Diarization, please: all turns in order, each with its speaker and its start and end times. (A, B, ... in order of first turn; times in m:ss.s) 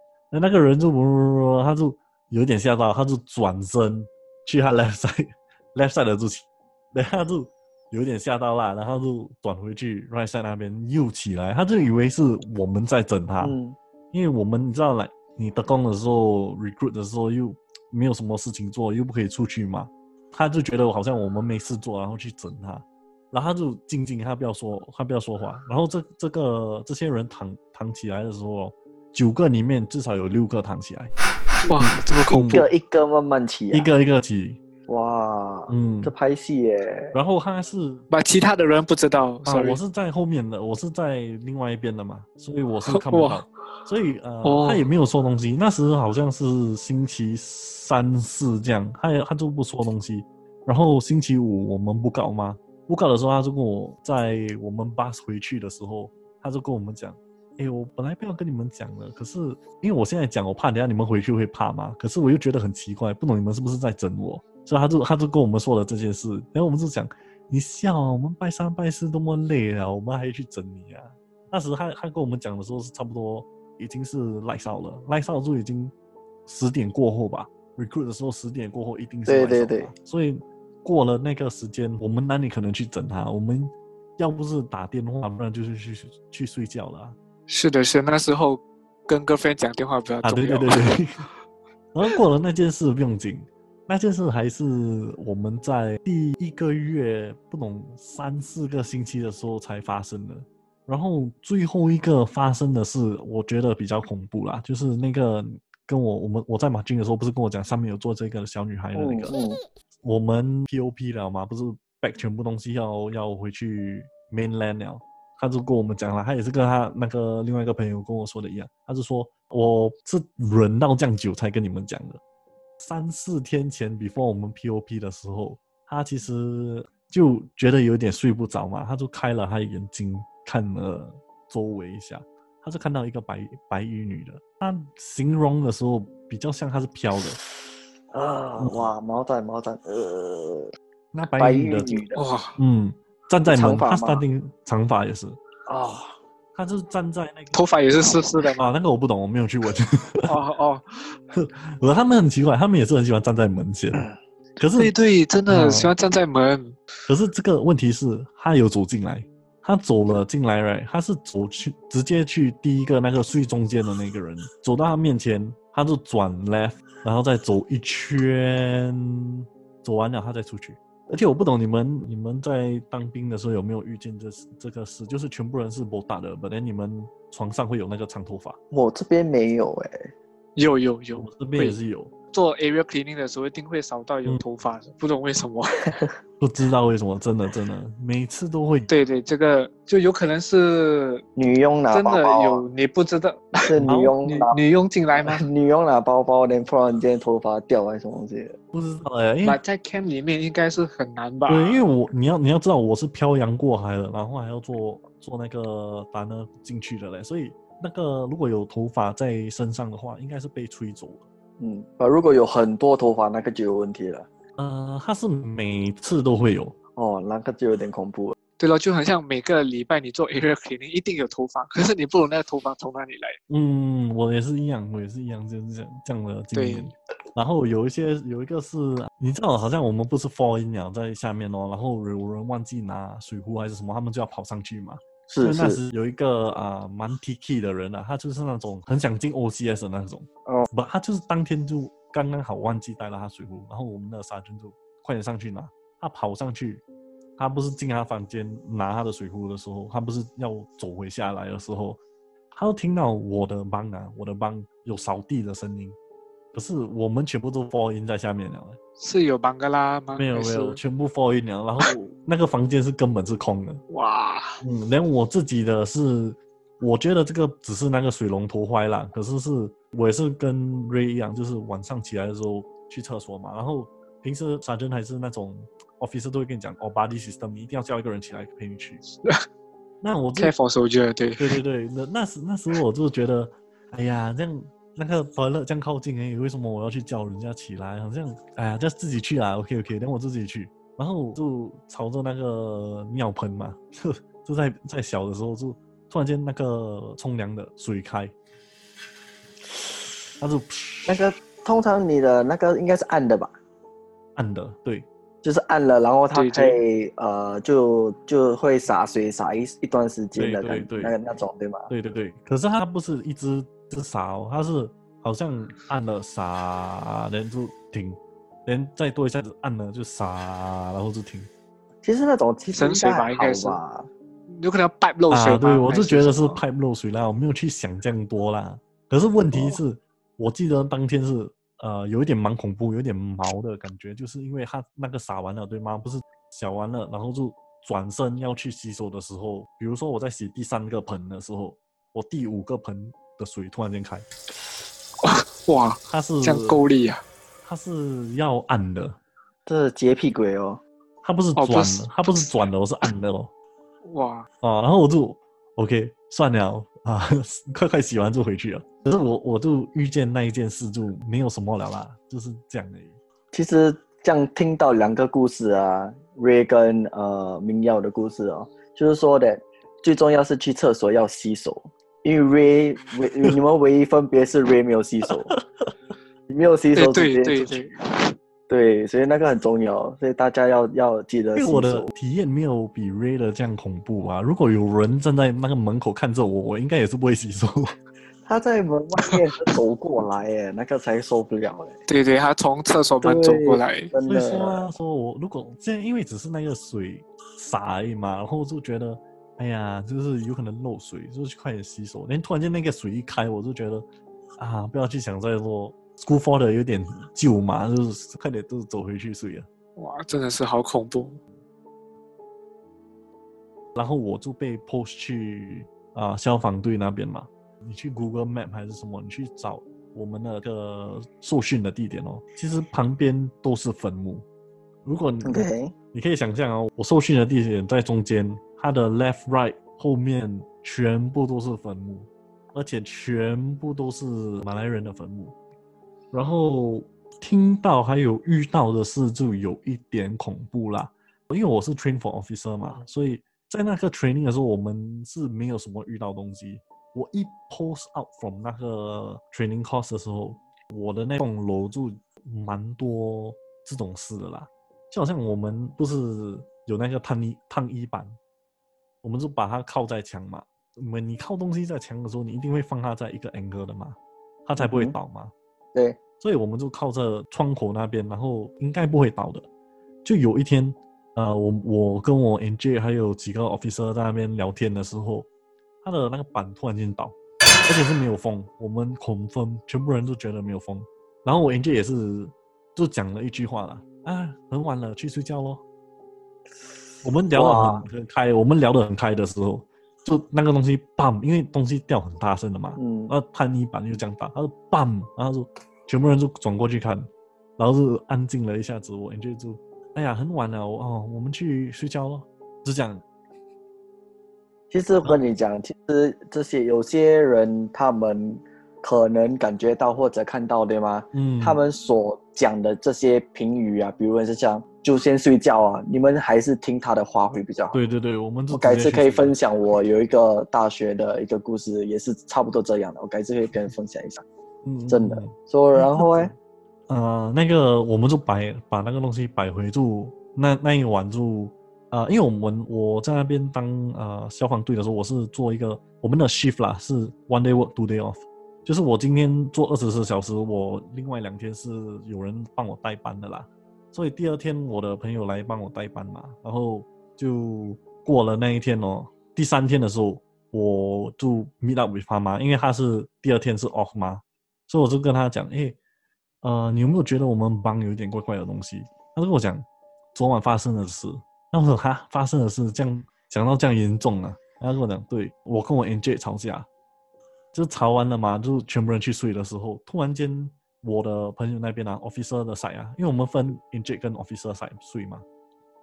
0:00.3-0:13.6 A
0:13.4-0:13.8 B
0:14.1-0:31.1 A
0:31.7-0:32.6 C
0:31.8-0:32.7 A
0:32.4-0:33.9 B
0:33.7-0:34.6 A
0:34.9-0:37.2 B
0:35.7-0:36.1 A
0:37.1-0:38.1 A
0:38.1-0:39.8 C
0:39.5-1:15.9 A
0:42.9-0:43.5 C
0:44.4-0:44.8 C
1:16.5-1:27.2 A
1:19.3-1:19.9 B
1:27.5-1:31.0 C
1:30.2-1:31.3 A
1:31.9-1:49.3 A
1:49.0-1:49.6 B
1:50.0-2:02.2 A
2:02.8-2:17.4 A
2:18.1-2:20.7 B
2:18.6-2:18.9 A
2:21.1-2:22.0 A
2:21.4-2:22.2 B
2:22.2-2:22.6 C
2:22.6-2:25.4 A
2:23.5-2:24.2 B
2:25.7-2:26.2 B
2:26.6-2:27.6 A
2:27.5-2:28.7 C
2:28.6-2:30.3 A
2:30.2-2:30.9 C
2:31.3-2:34.1 A
2:34.6-2:34.9 A
2:34.8-2:36.8 C
2:35.5-2:35.9 A
2:37.1-2:58.6 A
2:58.7-3:00.1 B
3:00.6-3:01.8 C
3:01.2-3:02.1 A
3:02.3-3:05.8 C
3:06.4-3:08.9 A
3:08.9-3:11.2 C
3:11.4-3:12.7 B
3:11.9-3:13.6 C
3:13.6-3:14.6 B
3:13.8-3:14.2 A
3:14.2-3:15.4 C
3:15.2-3:18.6 B
3:18.7-3:19.6 A
3:19.4-3:21.8 C
3:21.5-3:31.3 A
3:31.6-3:34.3 B
3:34.6-3:36.8 A
3:37.0-3:38.4 B
3:38.6-3:43.4 C
3:43.5-4:06.8 A
3:46.5-3:46.9 C
3:55.3-3:55.8 B
4:07.4-4:12.0 A
4:12.5-4:16.0 A
4:16.5-4:18.8 A
4:19.0-4:20.8 C
4:20.2-4:23.8 A
4:23.9-4:24.6 C
4:24.6-4:39.0 A
4:40.0-4:40.5 A
4:40.4-4:41.6 C
4:41.4-4:58.3 A
5:00.4-5:01.2 A
5:01.1-5:03.5 B
5:04.4-5:05.1 A
5:05.4-5:11.9 B
5:06.3-5:06.8 C
5:10.4-5:11.2 A
5:11.9-5:21.5 A
5:22.0-5:24.1 B
5:22.7-5:23.8 C
5:24.5-5:26.6 C
5:25.3-5:44.3 A
5:45.2-5:47.2 C
5:46.1-5:46.8 A
5:47.6-5:49.2 A
5:49.7-5:50.8 B
5:51.2-5:53.5 A
5:51.6-5:52.1 C
5:54.0-5:54.5 C
5:54.6-6:03.2 A
6:03.5-6:15.5 B
6:16.5-6:17.9 B
6:17.0-6:18.3 C
6:18.7-6:22.1 B
6:21.6-6:28.0 A
6:28.5-6:32.0 B
6:32.1-6:34.1 C
6:33.2-6:34.9 B
6:34.2-6:44.1 A
6:44.6-6:49.7 A
6:50.0-6:51.4 C
6:54.0-7:04.4 A
7:05.0-7:15.5 A
7:05.4-7:05.9 B
7:16.3-7:38.4 A
7:39.2-7:45.5 A
7:44.8-7:45.2 B
7:45.9-7:46.2 B
7:46.4-7:49.7 A
7:50.2-7:55.5 A
7:56.0-7:57.4 A
7:57.9-8:05.8 A
8:07.2-8:23.2 A
8:07.5-8:08.0 B
8:13.0-8:13.3 B
8:24.9-8:38.0 B
8:31.3-8:31.8 A
8:37.9-8:39.6 A
8:38.7-8:44.4 B
8:44.8-8:46.6 A
8:45.1-8:46.5 B
8:47.1-9:16.0 A
9:16.6-9:26.9 A
9:27.7-9:35.4 A